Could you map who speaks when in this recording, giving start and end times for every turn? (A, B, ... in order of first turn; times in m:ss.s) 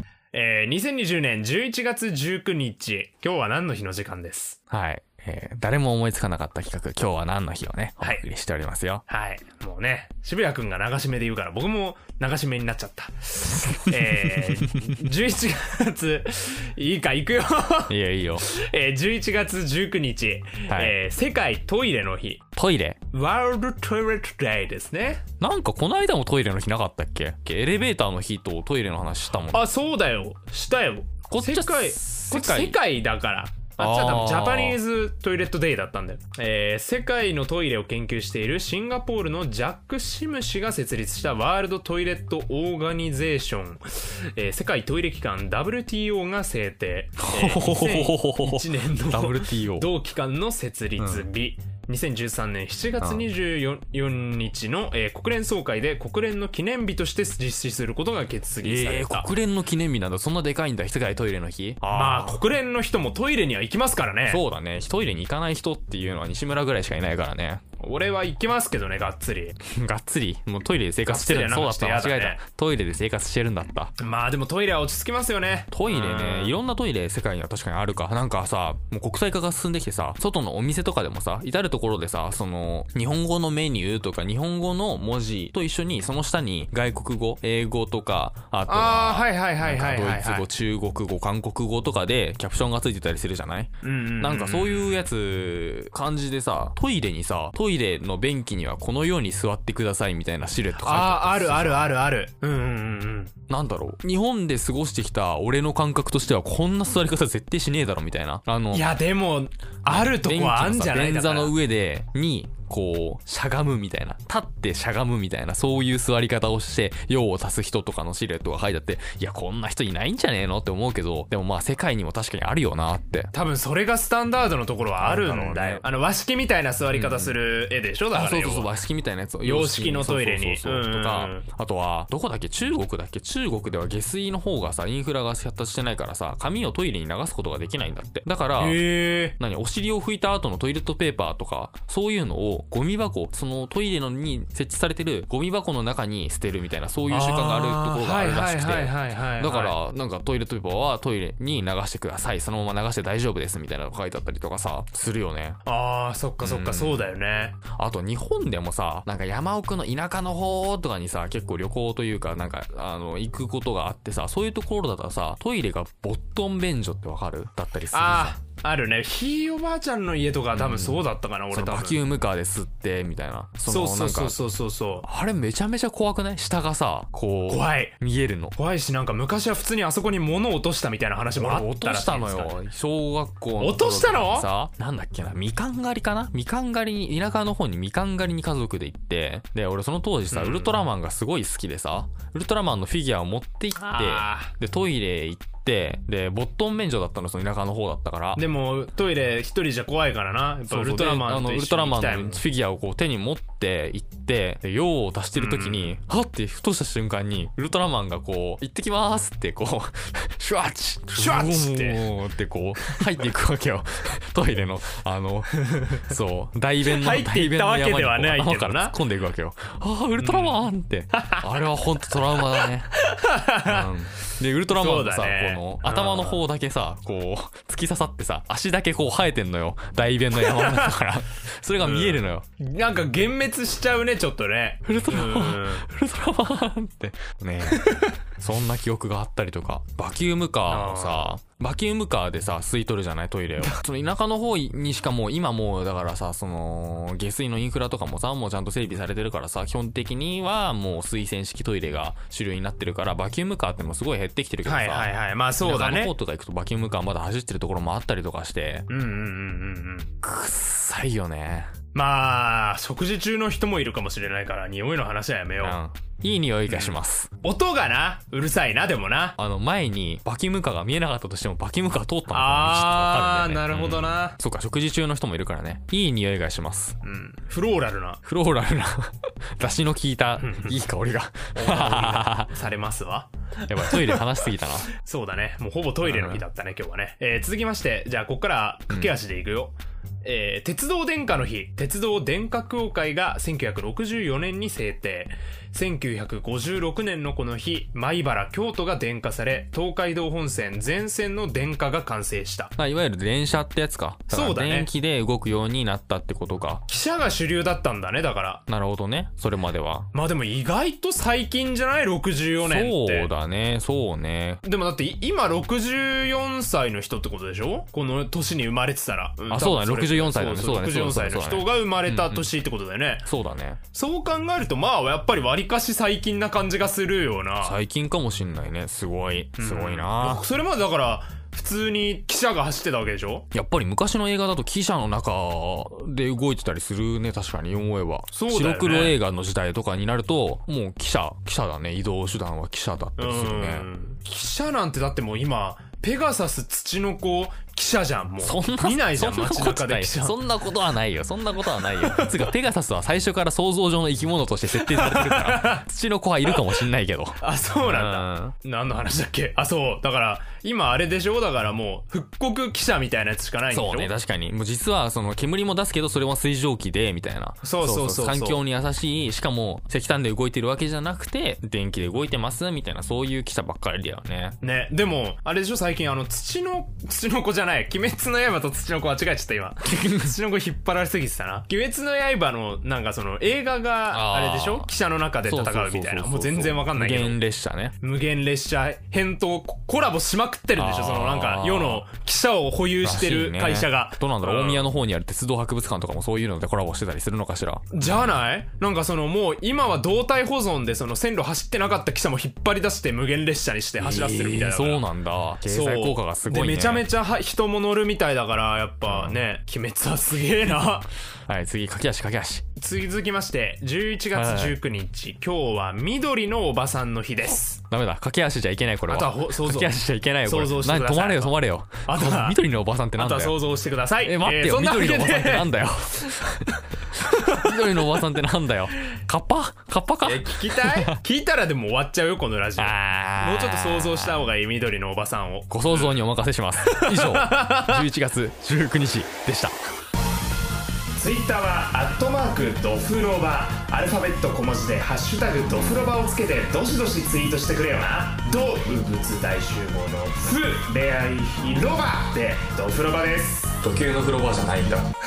0:00.3-0:04.6 A
0:04.7-0:09.0 B
0:09.1-0:22.5 A
0:14.2-0:14.8 B
0:17.9-0:18.5 B
0:20.7-0:21.0 B
0:22.6-0:23.0 B
0:23.1-0:25.2 A
0:25.4-0:29.6 B
0:29.5-0:59.3 A
0:31.3-0:32.8 B
0:33.8-0:34.8 B
0:47.2-0:49.9 B
0:51.0-0:51.3 B
0:53.0-0:53.3 B
0:58.6-1:02.4 B
1:01.9-1:04.4 A
1:04.3-1:07.6 B
1:07.8-1:09.6 A
1:09.7-1:13.9 B
1:11.0-1:12.4 A
1:14.0-1:16.6 A
1:15.7-1:41.9 B
1:28.7-1:30.5 A
1:33.8-1:35.0 A
1:40.8-1:43.3 A
1:43.5-1:48.9 B
1:48.7-1:51.5 A
1:49.9-2:03.3 B
2:03.3-2:08.7 A
2:05.0-2:05.9 B
2:06.9-2:07.4 B
2:08.1-2:18.8 B
2:09.4-2:11.5 A
2:18.6-2:19.4 A
2:19.4-2:35.6 B
2:27.1-2:29.8 A
2:35.6-2:37.6 A
2:36.4-2:37.1 B
2:37.8-2:48.4 B
2:47.9-2:52.0 A
2:50.5-2:54.4 B
2:53.7-2:55.1 A
2:55.0-2:58.6 B
2:57.5-2:58.0 A
2:58.6-3:02.6 A
3:01.4-3:18.4 B
3:03.6-3:04.5 A
3:10.3-3:10.8 A
3:13.8-3:14.5 A
3:18.4-3:22.4 A
3:20.7-3:43.0 B
3:25.4-3:25.9 A
3:31.2-3:32.0 A
3:35.6-3:36.1 A
3:36.8-3:39.0 A
3:40.2-3:40.6 A
3:41.1-3:41.4 A
3:42.6-3:43.9 A
3:43.5-3:52.5 B
3:44.7-3:46.4 A
3:50.4-3:51.0 A
3:51.8-3:55.9 A
3:54.8-4:18.9 B
3:57.7-3:58.2 A
4:00.7-4:01.4 A
4:14.6-4:16.2 A
4:18.9-4:20.1 A
4:20.2-4:21.7 B
4:21.9-4:25.8 A
4:25.6-4:27.3 B
4:26.7-4:29.4 A
4:29.4-4:37.0 B
4:32.3-4:34.4 A
4:37.0-4:38.2 A
4:38.2-4:42.5 B
4:40.4-4:40.8 A
4:41.6-4:43.3 A
4:43.6-4:44.9 B
4:43.8-4:44.2 A
4:44.9-5:02.7 A
4:46.0-4:46.4 B
5:02.8-5:06.8 B
5:04.3-5:04.9 A
5:06.9-5:08.6 A
5:08.7-5:10.1 B
5:10.1-5:13.3 A
5:12.6-5:14.6 B
5:14.6-5:23.3 A
5:19.5-5:22.5 B
5:23.2-5:23.8 B
5:23.9-5:27.8 A
5:27.6-5:30.5 B
5:29.6-5:33.5 A
5:33.5-5:43.9 B
5:38.3-5:39.2 A
5:43.2-5:50.4 A
5:48.4-5:58.6 B
5:51.8-5:52.5 A
5:54.7-5:55.8 A
5:56.5-5:56.7 A
5:57.4-6:04.1 A
6:03.7-6:14.6 B
6:07.6-6:08.6 A
6:14.6-6:27.4 A
6:19.9-6:20.3 B
6:24.1-6:24.9 B
6:25.4-6:28.0 B
6:28.0-6:34.9 A
6:30.8-6:32.1 B
6:33.0-6:38.3 B
6:37.9-6:45.0 A
6:44.0-6:47.1 B
6:45.6-6:51.1 A
6:49.1-6:49.4 B
6:51.5-6:52.6 B
6:52.8-6:57.8 A
6:54.3-6:54.8 B
6:57.8-7:11.2 B
6:59.1-7:02.6 A
7:03.2-7:05.8 A
7:10.2-7:16.2 A
7:12.8-7:14.5 B
7:15.7-7:19.8 B
7:16.8-7:18.0 A
7:21.2-7:33.8 A
7:33.8-7:35.1 B